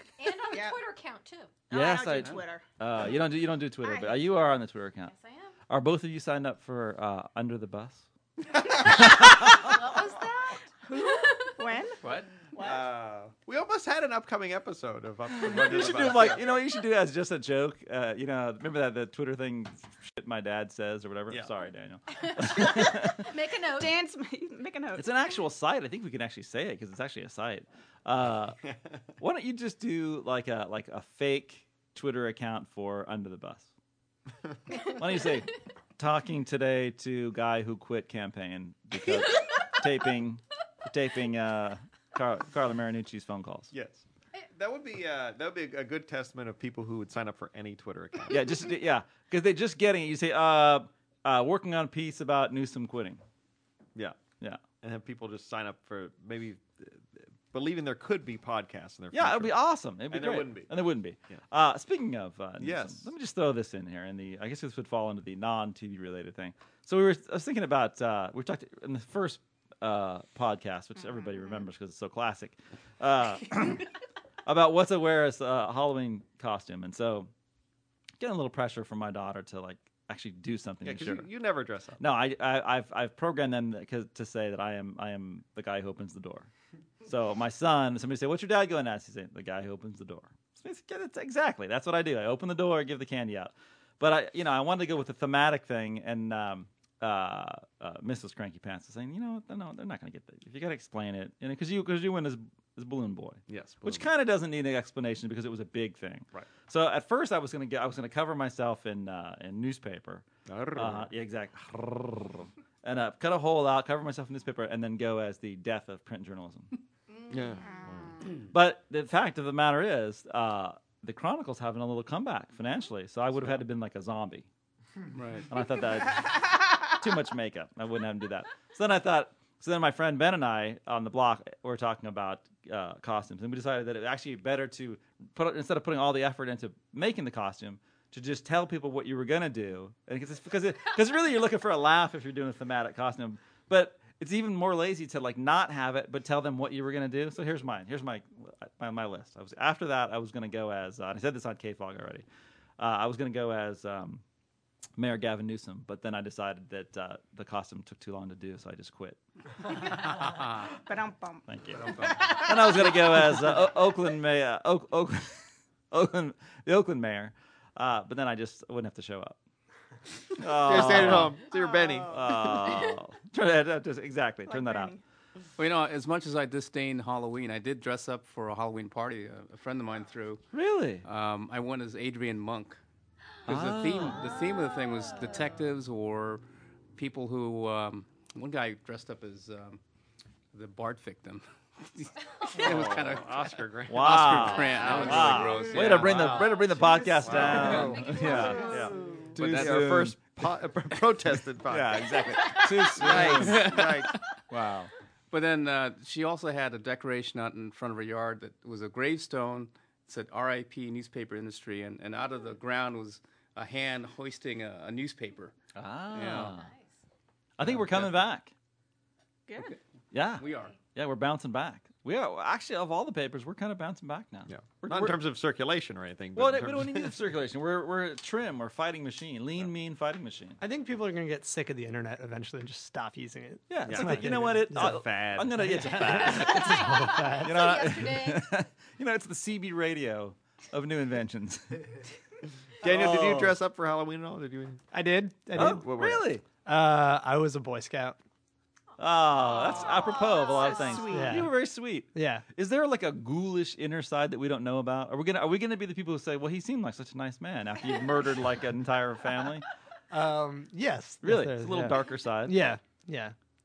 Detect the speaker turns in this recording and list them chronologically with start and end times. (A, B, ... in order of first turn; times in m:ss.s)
0:00.2-0:01.6 A
0:00.5-0:00.8 B
0:01.7-0:02.6 B
0:01.7-0:05.1 C
0:03.8-0:04.2 B
0:05.0-0:05.5 A
0:05.7-0:08.0 C
0:08.8-0:11.5 A
0:09.0-0:09.5 C
0:10.1-0:12.9 B
0:12.0-0:12.3 D
0:12.6-0:16.4 E
0:15.3-0:23.2 C
0:22.1-0:24.0 A
0:23.8-0:25.1 B
0:25.0-0:28.6 C
0:29.2-0:33.7 C
0:35.0-0:43.7 C
0:43.7-0:48.7 E
0:48.3-0:53.2 C
0:53.9-0:54.2 E
0:54.8-0:59.5 E
0:59.1-1:13.9 C
1:00.1-1:00.7 E
1:02.6-1:03.1 E
1:14.4-1:17.3 C
1:18.2-1:21.3 C
1:20.8-1:22.0 E
1:22.0-1:26.5 C
1:27.0-1:56.7 C
1:43.5-1:44.1 E
1:50.4-1:51.1 E
1:57.3-1:58.1 E
1:57.6-1:58.2 B
1:58.5-2:04.4 C
2:05.1-2:05.5 D
2:05.5-2:32.2 C
2:32.8-2:34.2 C
2:35.0-2:39.2 C
2:40.8-2:43.4 B
2:41.5-2:49.4 C
2:50.4-2:51.4 C
2:50.4-2:53.0 E
2:52.1-2:54.9 C
2:54.5-2:55.0 B
2:55.6-3:00.4 D
3:00.5-3:01.0 C
3:01.0-3:02.8 D
3:03.5-3:04.2 C
3:03.5-3:06.4 D
3:06.9-3:09.8 D
3:10.5-3:16.7 D
3:12.5-3:16.3 E
3:13.9-3:20.2 C
3:16.6-3:19.0 A
3:17.2-3:18.4 E
3:17.4-3:17.9 D
3:18.2-3:19.4 B
3:19.3-3:24.1 E
3:19.4-3:20.0 D
3:21.6-3:24.9 C
3:23.1-3:24.1 D
3:25.3-3:35.5 D
3:35.8-3:36.7 C
3:36.1-3:36.6 D
3:36.5-3:36.9 A
3:37.6-3:38.5 C
3:37.6-3:38.2 D
3:39.5-3:39.8 B
3:40.1-3:45.2 C
3:40.4-3:40.8 D
3:44.5-3:47.2 E
3:46.4-3:50.6 C
3:50.6-3:55.0 F
3:53.7-4:01.9 C
3:53.8-3:56.5 E
3:55.6-3:55.9 F
3:56.1-3:58.5 A
3:56.7-3:57.5 F
4:02.8-4:04.8 E
4:02.8-4:03.6 C
4:04.9-4:08.2 F
4:05.5-4:06.2 E
4:05.5-4:06.4 C
4:09.0-4:19.6 C
4:09.6-4:11.0 B
4:09.6-4:11.1 A
4:11.1-4:11.5 F
4:12.1-4:12.4 F
4:20.1-4:23.3 F
4:21.2-4:22.7 C